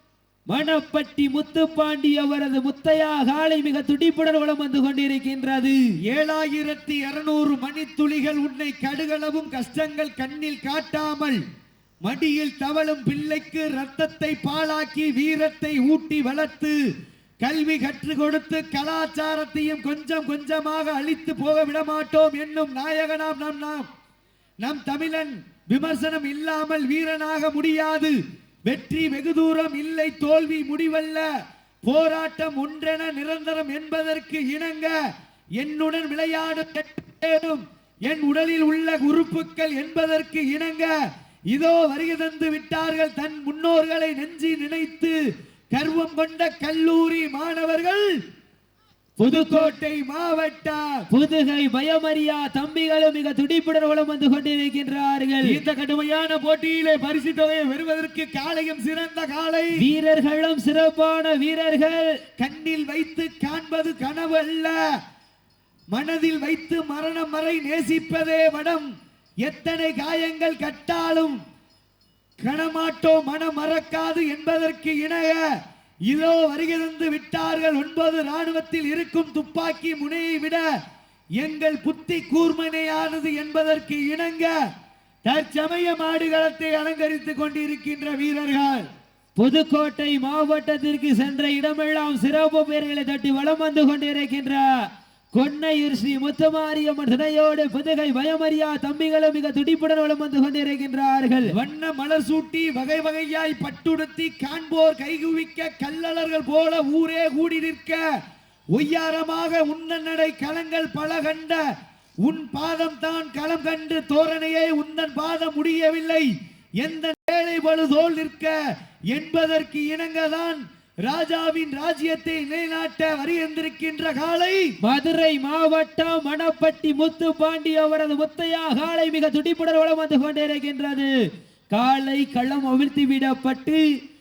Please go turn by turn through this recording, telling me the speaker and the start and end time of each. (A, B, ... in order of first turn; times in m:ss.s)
0:00.5-0:05.8 A
0:06.1-0:11.4 B
0:12.0-0:16.8 B
0:17.4-0:23.9 B
0:24.6-0:28.2 B
0:28.7-0:31.3 B
0:31.8-0:35.0 B
0:35.6-0:40.9 B
0:41.5-0:45.2 B
0:45.7-0:48.1 B
0:49.2-0:49.8 A
0:49.2-0:51.0 B
0:51.1-0:55.6 A
0:55.4-0:59.7 B
0:59.8-1:02.1 A
1:02.4-1:04.8 B
1:05.9-1:08.9 B
1:09.4-1:11.4 B
1:12.4-1:15.4 B
1:16.1-1:20.7 B
1:21.4-1:24.6 B
1:25.3-1:28.9 B
1:29.4-1:34.7 A
1:35.3-1:41.5 A
1:41.5-1:48.0 B
1:48.7-1:51.6 B
1:52.2-1:56.3 B
1:56.8-1:58.6 B
1:59.1-2:04.7 B
2:04.8-2:11.1 A
2:11.7-2:13.8 A